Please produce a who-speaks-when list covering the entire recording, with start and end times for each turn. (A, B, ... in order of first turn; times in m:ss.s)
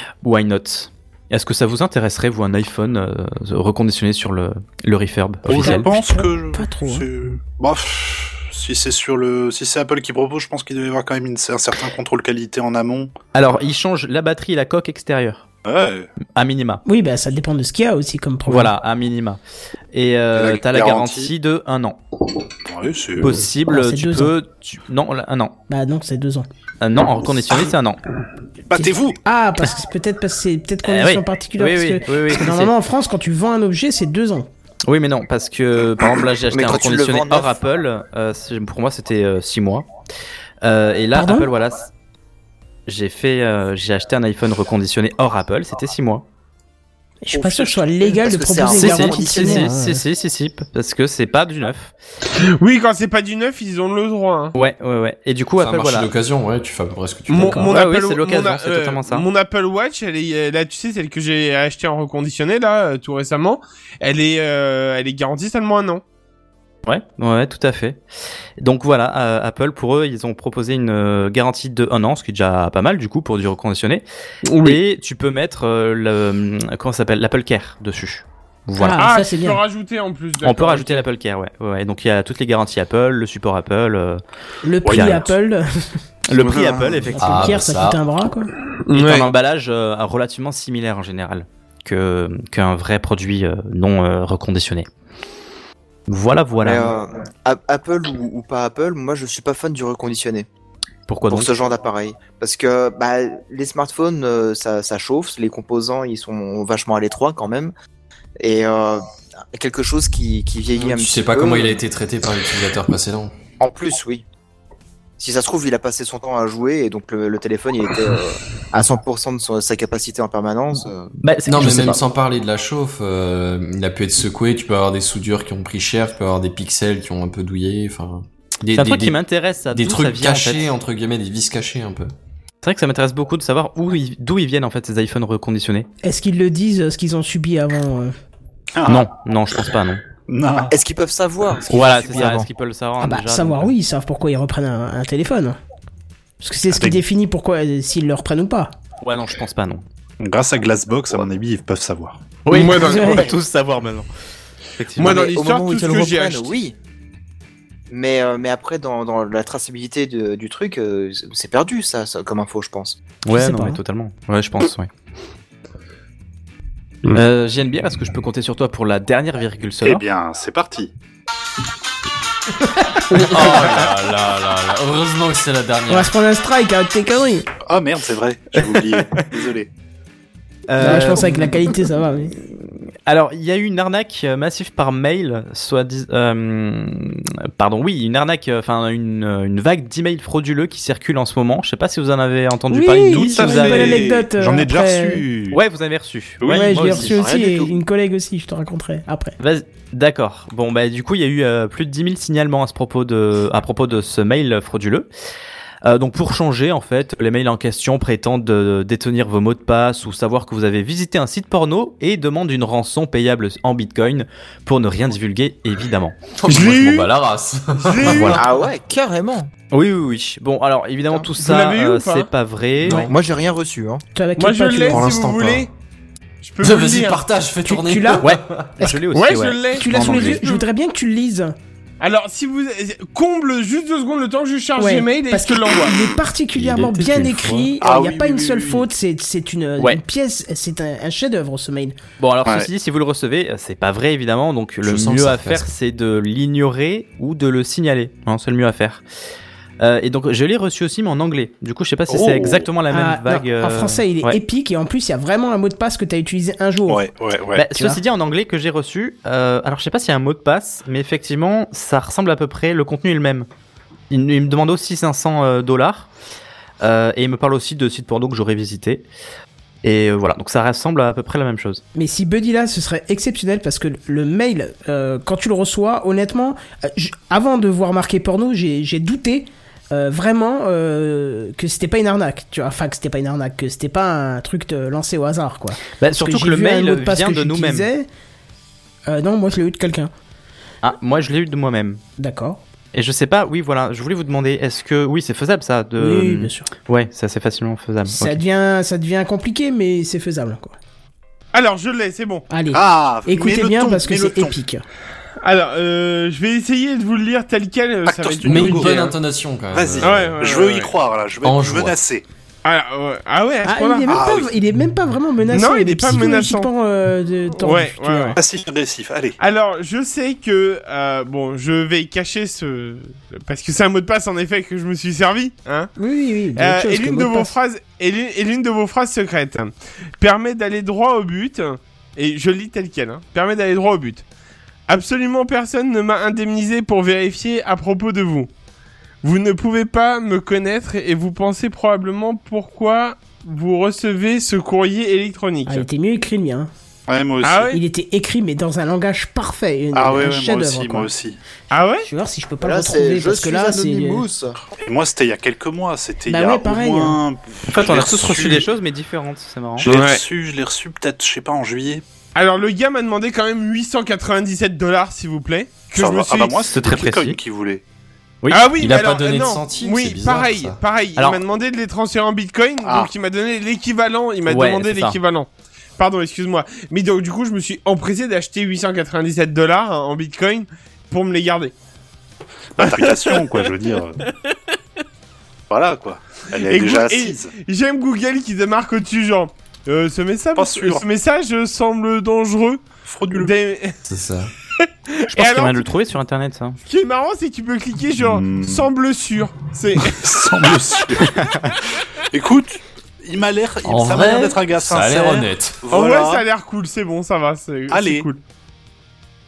0:00.2-0:05.9 A
0:05.4-0:13.1 B
0:05.6-0:07.0 C
0:13.3-0:15.4 A
0:15.6-0:16.1 B
0:16.2-0:16.8 A
0:16.8-0:18.7 C
0:18.5-0:19.4 A
0:19.9-0:22.0 A
0:20.3-0:21.3 B
0:22.6-0:23.4 B
0:23.2-0:25.5 A
0:23.7-0:24.3 C
0:25.7-0:26.5 C
0:26.8-0:28.0 A
0:28.7-0:29.2 B
0:28.8-0:34.5 C
0:30.8-0:32.7 A
0:34.8-0:39.8 A
0:36.5-0:37.6 D
0:40.6-0:41.9 A
0:41.1-0:41.5 C
0:42.9-0:46.2 A
0:47.2-0:50.0 C
0:47.3-0:47.8 B
0:48.0-0:49.7 D
0:48.7-0:51.9 A
0:52.3-0:54.5 E
0:54.6-0:56.1 A
0:55.6-0:57.7 F
0:57.3-1:06.0 E
0:57.4-0:57.7 C
0:57.7-0:59.3 A
1:06.8-1:08.0 A
1:08.6-1:14.0 A
1:14.4-1:14.8 E
1:14.6-1:19.1 A
1:18.8-1:19.6 C
1:19.0-1:21.0 E
1:20.4-1:24.2 A
1:24.6-1:25.8 C
1:24.8-1:25.3 A
1:24.8-1:25.3 B
1:26.3-1:27.6 A
1:26.3-1:27.1 B
1:27.1-1:28.5 C
1:27.2-1:28.0 F
1:28.8-1:29.3 E
1:28.9-1:34.9 A
1:36.1-1:36.9 A
1:36.6-1:40.5 D
1:41.1-1:41.5 A
1:41.3-1:47.7 D
1:48.4-1:51.8 D
1:50.8-1:53.3 F
1:53.6-1:54.2 D
1:55.2-2:01.1 D
2:01.2-2:02.0 A
2:01.5-2:09.2 F
2:08.7-2:10.7 A
2:09.7-2:12.1 F
2:12.6-2:15.9 A
2:16.0-2:18.1 C
2:18.8-2:19.1 B
2:18.8-2:20.0 A
2:20.3-2:20.7 B
2:20.7-2:22.5 D
2:21.7-2:23.7 A
2:23.0-2:25.6 C
2:26.4-2:28.7 C
2:26.7-2:27.0 B
2:29.0-2:29.8 A
2:30.2-2:32.2 B
2:32.4-2:34.1 A
2:32.5-2:33.2 E
2:32.5-2:33.3 C
2:34.8-2:35.3 A
2:35.0-2:36.5 E
2:35.0-2:36.7 D
2:37.9-2:43.0 D
2:43.2-2:44.9 A
2:43.3-2:43.8 C
2:47.1-2:50.0 A
2:49.8-2:50.9 B
2:53.1-2:56.1 F
2:53.3-2:53.9 A
2:55.9-2:57.5 C
2:57.7-2:59.7 B
2:58.6-2:59.3 A
3:00.7-3:01.7 A
3:00.8-3:02.3 C
3:02.6-3:14.0 A
3:12.7-3:15.2 C
3:13.1-3:15.6 B
3:15.5-3:17.2 A
3:16.4-3:16.8 B
3:16.5-3:19.4 C
3:16.9-3:17.8 D
3:19.4-3:25.1 A
3:25.8-3:36.2 A
3:36.4-3:38.4 F
3:36.4-3:37.1 E
3:37.8-3:38.4 E
3:38.0-3:38.4 A
3:38.3-3:39.5 D
3:39.7-3:43.1 A
3:41.4-3:42.3 E
3:42.8-3:43.1 F
3:42.9-3:44.0 D
3:44.1-3:45.0 C
3:44.4-3:45.7 E
3:44.9-3:45.7 F
3:46.4-3:47.2 E
3:46.6-3:48.7 F
3:47.6-3:49.0 C
3:48.2-3:50.4 A
3:49.1-3:50.6 E
3:49.7-3:51.5 C
3:52.0-3:56.0 E
3:54.8-4:01.9 C
3:56.5-3:57.7 F
3:57.8-3:58.9 B
4:02.2-4:09.0 A
4:04.8-4:05.7 F
4:09.8-4:14.4 A
4:12.1-4:12.7 B
4:12.9-4:17.0 C
4:16.9-4:17.7 B
4:17.6-4:23.5 A
4:24.1-4:26.1 A
4:26.8-4:29.0 A
4:29.8-4:31.8 A
4:31.9-4:48.1 C
4:46.0-4:47.9 A
4:49.1-4:50.1 C
4:50.8-4:52.0 A
4:52.2-4:52.6 C
4:52.9-4:58.4 A
4:56.0-4:56.7 C
4:58.1-5:00.8 C
5:01.5-5:02.4 E
5:02.5-5:04.8 C
5:02.7-5:04.5 B
5:05.4-5:09.1 E
5:08.0-5:09.0 B
5:08.4-5:10.4 F
5:09.7-5:12.2 B
5:10.0-5:10.9 E
5:11.4-5:12.0 F
5:12.6-5:14.2 E
5:13.6-5:18.4 C
5:14.1-5:14.5 B
5:15.5-5:16.7 E
5:17.5-5:18.4 E
5:18.4-5:19.4 B
5:19.4-5:25.9 E
5:26.0-5:27.5 C
5:26.6-5:34.2 E
5:34.9-5:38.5 E
5:39.2-5:45.8 E
5:45.6-5:46.7 C
5:47.1-5:47.7 B
5:47.4-5:47.8 E
5:47.7-5:51.1 C
5:49.9-5:51.4 B
5:51.7-5:52.1 E
5:52.0-5:54.2 C
5:52.6-5:54.6 D
5:54.7-5:58.7 B
5:56.3-5:57.2 C
5:57.7-5:59.9 A
5:59.8-6:02.0 B
5:59.9-6:00.2 E
6:02.3-6:06.6 E
6:05.9-6:07.8 B
6:06.7-6:07.4 A
6:08.4-6:08.7 A
6:08.5-6:21.7 E
6:08.8-6:10.8 F
6:12.8-6:13.1 B
6:14.4-6:15.2 A
6:22.8-6:24.2 B
6:22.8-6:24.5 E
6:25.7-6:27.5 B
6:26.6-6:34.0 E
6:30.5-6:31.0 B
6:33.0-6:33.5 B
6:34.0-6:34.5 F
6:34.8-6:35.9 E
6:35.3-6:36.8 A
6:36.8-6:40.3 E
6:38.2-6:38.9 B
6:40.0-6:41.5 B
6:42.3-6:46.4 B
6:43.8-6:45.8 F
6:45.9-6:48.4 E
6:47.9-6:48.3 B